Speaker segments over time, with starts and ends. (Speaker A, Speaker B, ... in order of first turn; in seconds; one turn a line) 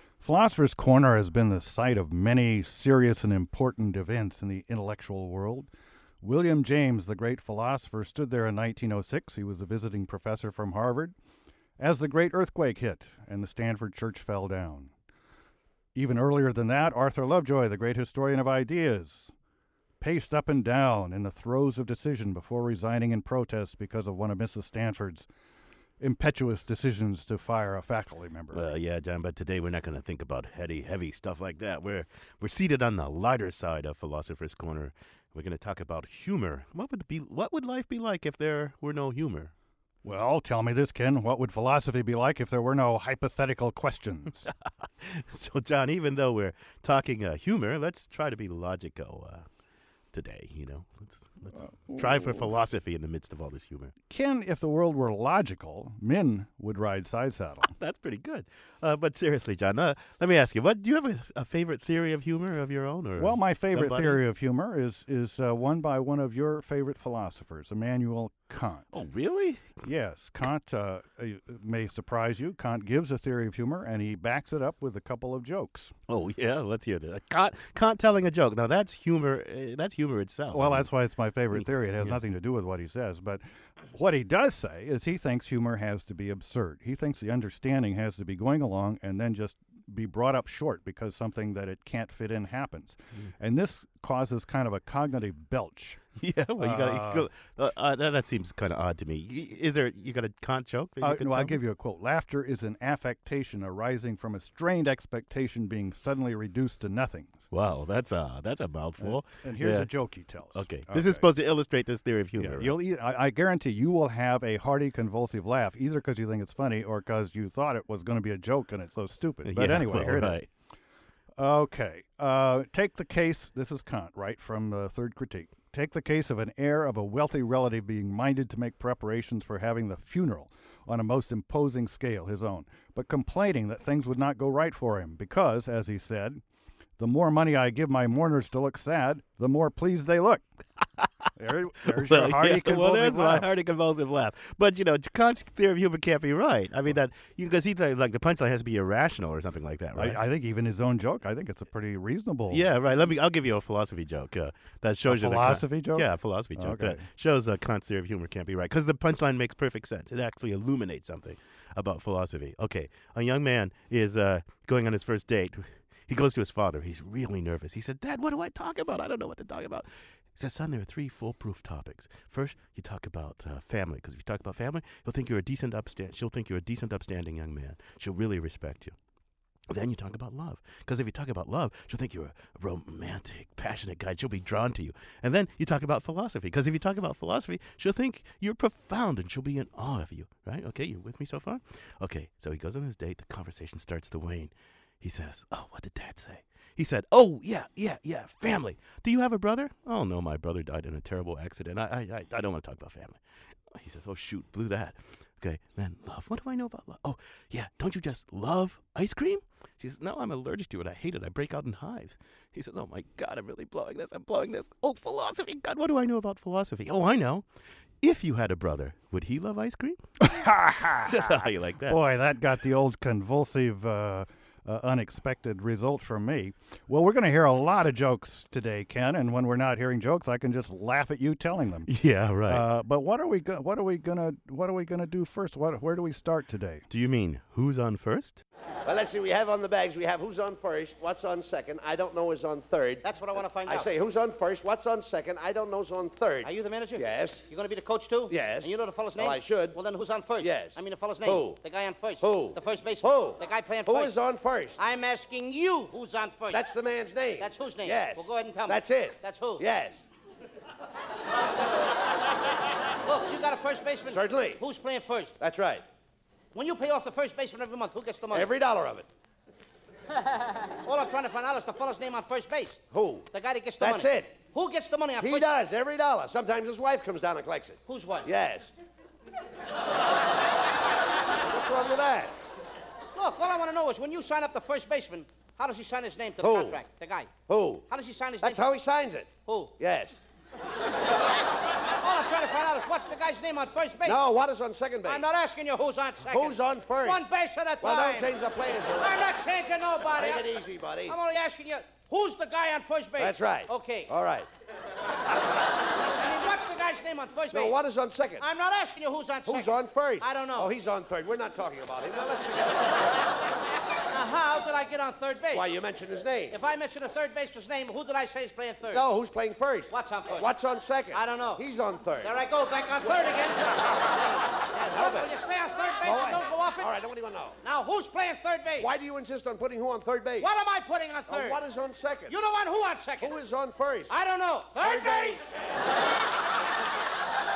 Speaker A: 0.2-5.7
Speaker A: 6.2-11.2
Speaker A: 11.8-14.9
Speaker A: 15.9-19.3
Speaker A: 20.0-25.3
Speaker A: 26.0-28.7
Speaker B: 28.5-39.5
Speaker A: 40.0-44.5
Speaker B: 44.9-49.5
Speaker B: 50.1-53.9
Speaker A: 51.8-52.5
Speaker A: 54.1-57.7
Speaker B: 57.6-64.3
Speaker A: 63.2-69.0
Speaker B: 68.9-69.8
Speaker A: 69.8-75.9
Speaker B: 76.1-80.9
Speaker A: 80.5-96.0
Speaker B: 81.5-82.2
Speaker B: 96.2-101.6
Speaker A: 96.6-97.3
Speaker A: 101.0-107.4
Speaker B: 107.5-109.9
Speaker A: 109.0-111.3
Speaker B: 110.5-112.8
Speaker A: 112.4-120.5
Speaker B: 119.5-120.5
Speaker A: 121.4-136.4
Speaker A: 137.0-140.4
Speaker A: 141.4-143.5
Speaker B: 141.8-150.2
Speaker A: 149.9-152.7
Speaker B: 152.5-178.9
Speaker A: 155.1-157.1
Speaker B: 179.7-203.2
Speaker B: 203.7-217.4
Speaker B: 218.0-220.0
Speaker A: 220.2-221.3
Speaker B: 221.0-222.0
Speaker A: 221.9-231.9
Speaker B: 231.9-232.7
Speaker A: 232.5-236.9
Speaker B: 236.9-238.4
Speaker C: 238.8-243.1
Speaker D: 243.0-243.9
Speaker C: 243.6-247.4
Speaker D: 246.4-254.2
Speaker C: 248.3-249.8
Speaker C: 250.4-251.6
Speaker C: 252.2-254.8
Speaker D: 254.8-256.6
Speaker C: 256.5-260.0
Speaker D: 257.4-259.6
Speaker D: 263.0-265.4
Speaker C: 264.1-264.6
Speaker C: 265.4-265.8
Speaker D: 266.5-268.5
Speaker C: 268.3-269.1
Speaker D: 270.8-275.5
Speaker C: 272.9-273.3
Speaker C: 273.8-274.3
Speaker C: 275.2-278.7
Speaker D: 277.9-278.3
Speaker C: 281.4-282.3
Speaker D: 283.1-287.3
Speaker C: 286.4-286.8
Speaker C: 287.5-287.9
Speaker D: 287.9-288.6
Speaker C: 288.4-290.2
Speaker D: 289.4-289.8
Speaker D: 292.0-294.2
Speaker C: 294.0-295.2
Speaker D: 295.1-298.3
Speaker C: 296.2-297.2
Speaker C: 297.8-299.2
Speaker D: 299.0-304.1
Speaker C: 300.1-301.1
Speaker C: 303.2-304.5
Speaker D: 306.1-307.8
Speaker C: 307.5-308.4
Speaker D: 308.4-310.7
Speaker C: 309.5-313.3
Speaker D: 314.1-315.7
Speaker C: 315.5-316.6
Speaker D: 316.5-319.1
Speaker C: 318.9-322.3
Speaker D: 319.9-320.5
Speaker D: 321.1-321.6
Speaker D: 322.2-324.1
Speaker C: 323.0-325.3
Speaker D: 324.7-326.9
Speaker C: 326.0-327.6
Speaker D: 327.6-328.9
Speaker C: 328.8-330.5
Speaker D: 330.4-331.6
Speaker C: 331.3-332.3
Speaker D: 332.3-333.4
Speaker C: 333.2-334.1
Speaker D: 334.1-335.5
Speaker C: 334.8-335.6